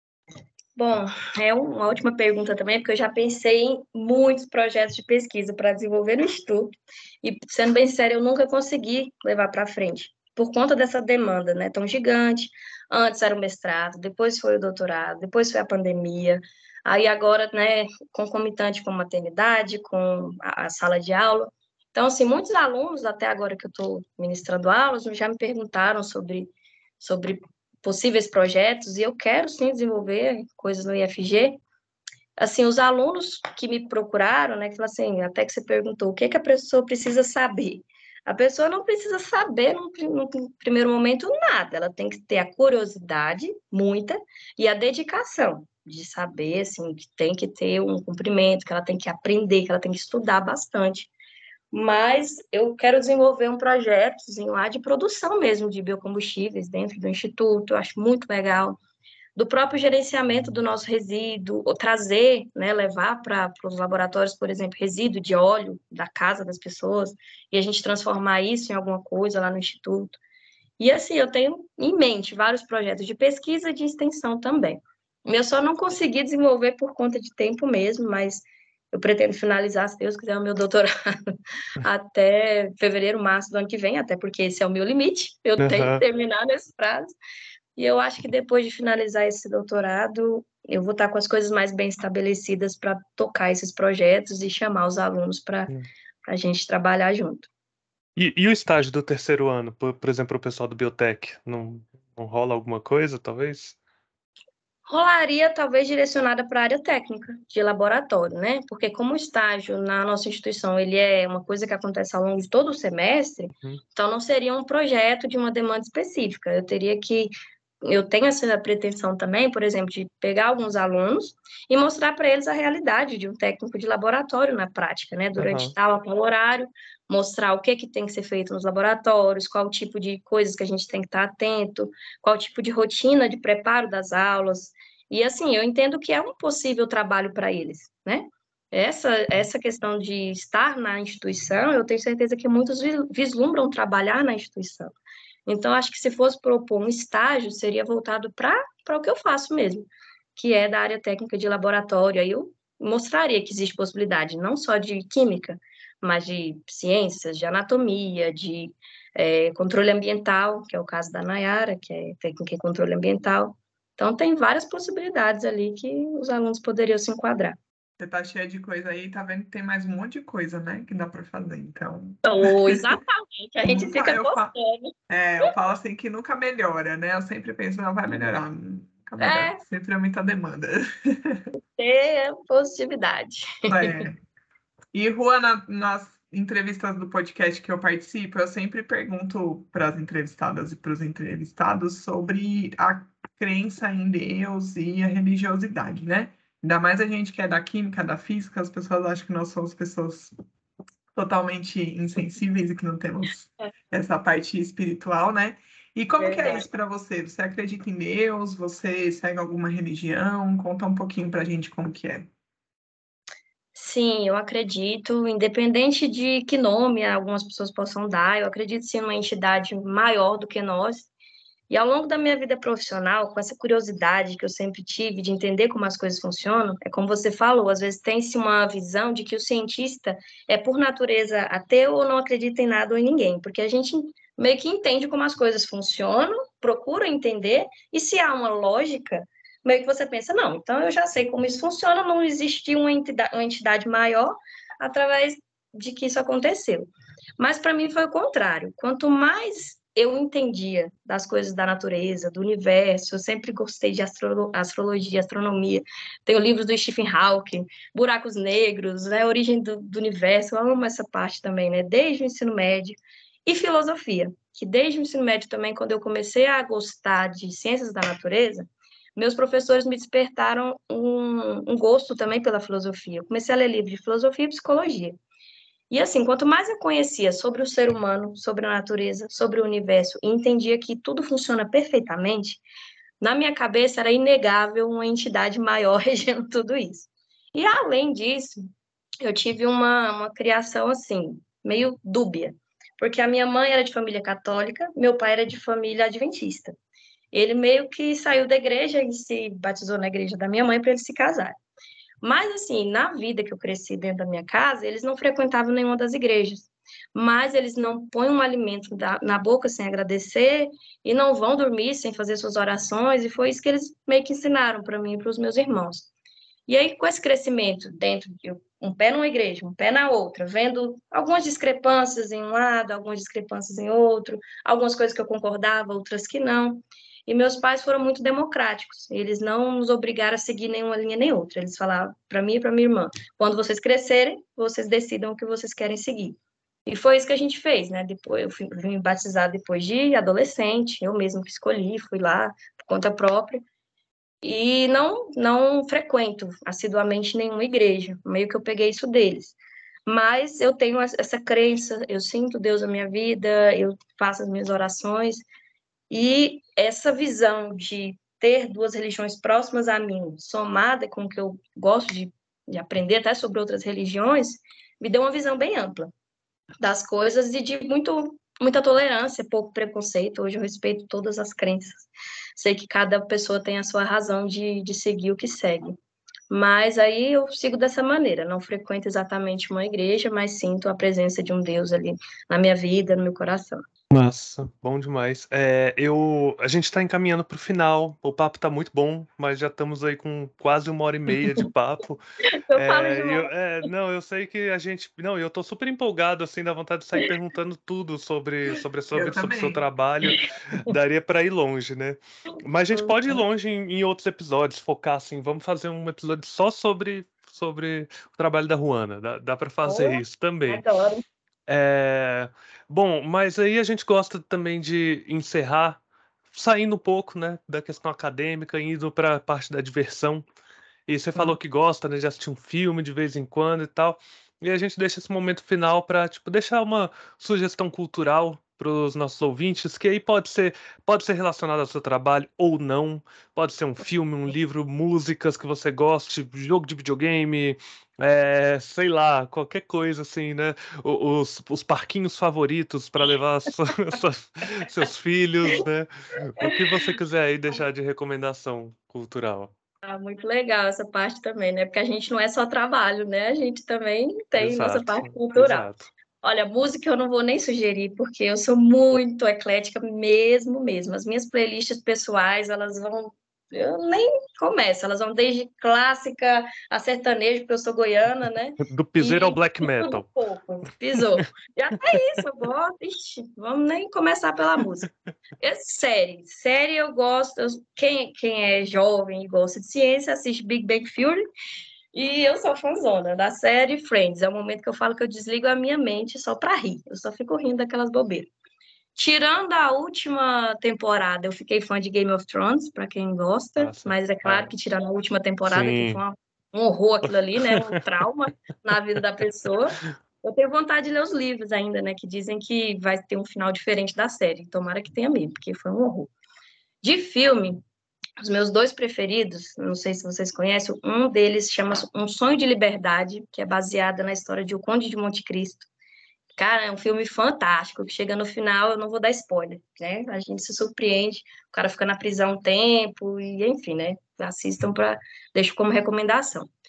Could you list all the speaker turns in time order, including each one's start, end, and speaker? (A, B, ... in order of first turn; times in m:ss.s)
0:00.8-0:31.6 A
0:32.4-0:51.1 A
0:51.7-0:58.8 A
0:59.4-1:10.2 A
1:10.8-1:27.1 A
1:25.6-1:26.0 B
1:27.8-1:35.7 A
1:36.2-1:37.5 A
1:38.2-1:43.8 B
1:44.8-2:24.9 A
2:05.4-2:05.7 B
2:25.4-2:47.6 A
2:48.0-2:52.9 C
2:52.2-2:55.5 A
2:53.6-2:54.5 C
2:55.1-3:01.4 C
2:59.2-2:59.6 A
3:01.7-3:04.0 A
3:03.7-3:04.2 C
3:04.9-3:20.3 C
3:21.1-3:32.3 C
3:26.2-3:26.6 A
3:33.7-3:41.1 A
3:41.7-4:35.2 A
4:35.9-4:42.6 A
4:43.2-4:48.7 A
4:49.2-4:56.7 A
4:57.3-5:01.5 A
5:02.2-5:16.1 A
5:16.7-5:43.6 A
5:44.4-5:55.4 A
5:56.1-6:06.1 A
6:06.8-6:16.0 A
6:16.5-6:23.8 A
6:24.1-6:32.2 B
6:32.7-6:33.5 A
6:32.7-6:50.8 B
6:39.1-6:39.8 C
6:40.2-6:40.9 A
6:42.9-6:43.4 A
6:49.8-6:51.2 A
6:51.7-7:00.4 B
7:01.1-7:29.7 B
7:26.6-7:27.1 A
7:30.0-7:35.9 A
7:34.6-7:36.1 B
7:36.4-7:55.1 A
7:48.8-7:50.3 B
7:55.6-8:01.4 A
8:02.1-8:08.5 A
8:09.2-8:26.3 A
8:13.8-8:14.7 B
8:15.6-8:16.2 B
8:17.6-8:18.0 B
8:27.0-8:27.8 A
8:28.4-8:35.9 A
8:36.6-8:46.7 A